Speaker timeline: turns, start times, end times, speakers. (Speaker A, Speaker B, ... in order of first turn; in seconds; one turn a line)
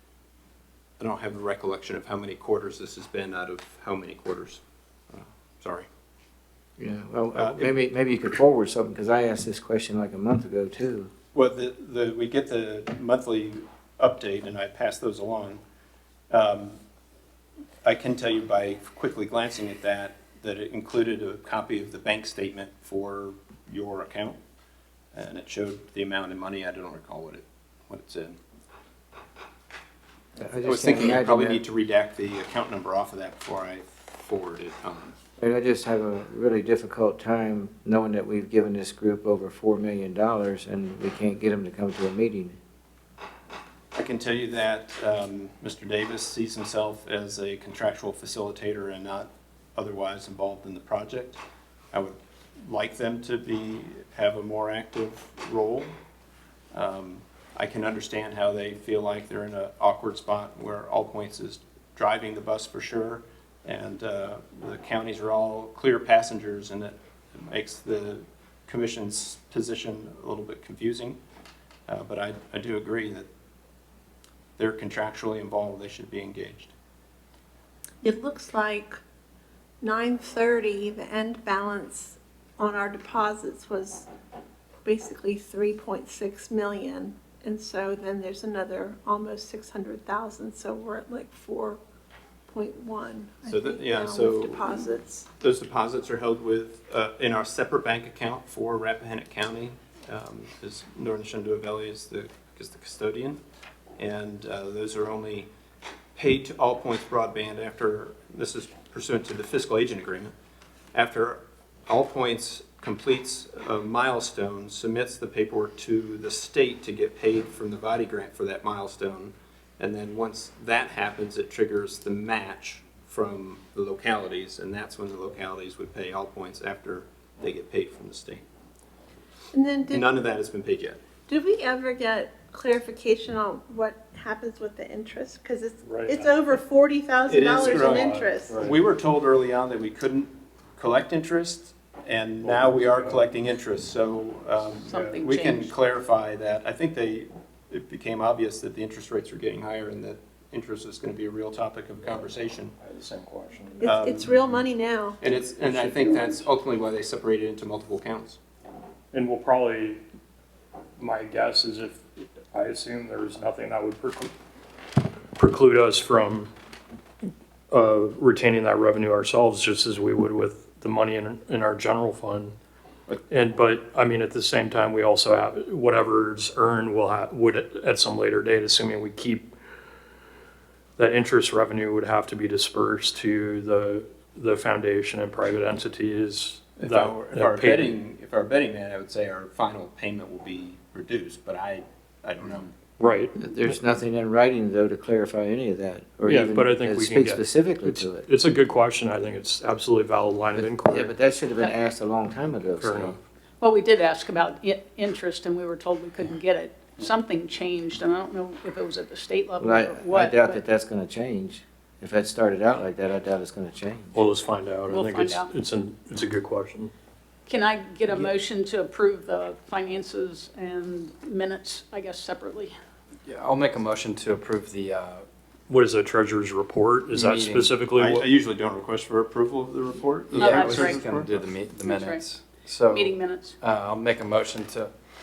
Speaker A: 1.0-4.6
Speaker A: 5.1-5.9
Speaker B: 6.8-11.1
Speaker A: 7.3-7.8
Speaker A: 11.3-15.6
Speaker A: 16.3-16.8
Speaker A: 17.8-24.4
Speaker A: 25.1-28.4
Speaker B: 30.4-31.6
Speaker A: 30.6-35.1
Speaker B: 35.4-42.6
Speaker A: 44.0-51.4
Speaker A: 51.9-55.9
Speaker A: 56.7-71.2
Speaker A: 71.9-73.3
Speaker A: 74.6-76.7
Speaker C: 78.0-79.0
Speaker C: 79.8-84.1
Speaker C: 84.8-91.8
Speaker C: 92.5-95.3
Speaker A: 93.5-94.8
Speaker A: 95.4-103.4
Speaker A: 104.0-105.5
Speaker A: 106.2-110.3
Speaker A: 110.9-128.4
Speaker C: 129.5-130.1
Speaker A: 129.9-131.0
Speaker C: 131.3-138.6
Speaker D: 135.8-136.5
Speaker A: 137.3-152.7
Speaker D: 137.4-138.8
Speaker D: 142.4-143.2
Speaker E: 144.9-145.7
Speaker D: 152.8-154.1
Speaker C: 153.8-155.2
Speaker A: 153.8-154.3
Speaker A: 155.2-158.4
Speaker D: 155.6-156.0
Speaker D: 159.1-160.0
Speaker D: 161.0-164.3
Speaker D: 165.4-166.5
Speaker D: 167.7-172.6
Speaker D: 173.3-179.5
Speaker D: 181.0-187.9
Speaker A: 186.8-192.7
Speaker D: 193.0-193.4
Speaker B: 193.3-198.3
Speaker D: 196.2-201.2
Speaker B: 200.6-203.2
Speaker D: 202.8-203.1
Speaker E: 203.6-210.6
Speaker B: 209.6-214.2
Speaker D: 214.1-216.9
Speaker E: 214.9-215.5
Speaker E: 217.5-222.8
Speaker F: 223.3-225.3
Speaker D: 225.7-228.2
Speaker F: 227.1-227.7
Speaker A: 228.0-231.5
Speaker E: 230.3-231.0
Speaker F: 230.4-234.9
Speaker E: 231.8-233.6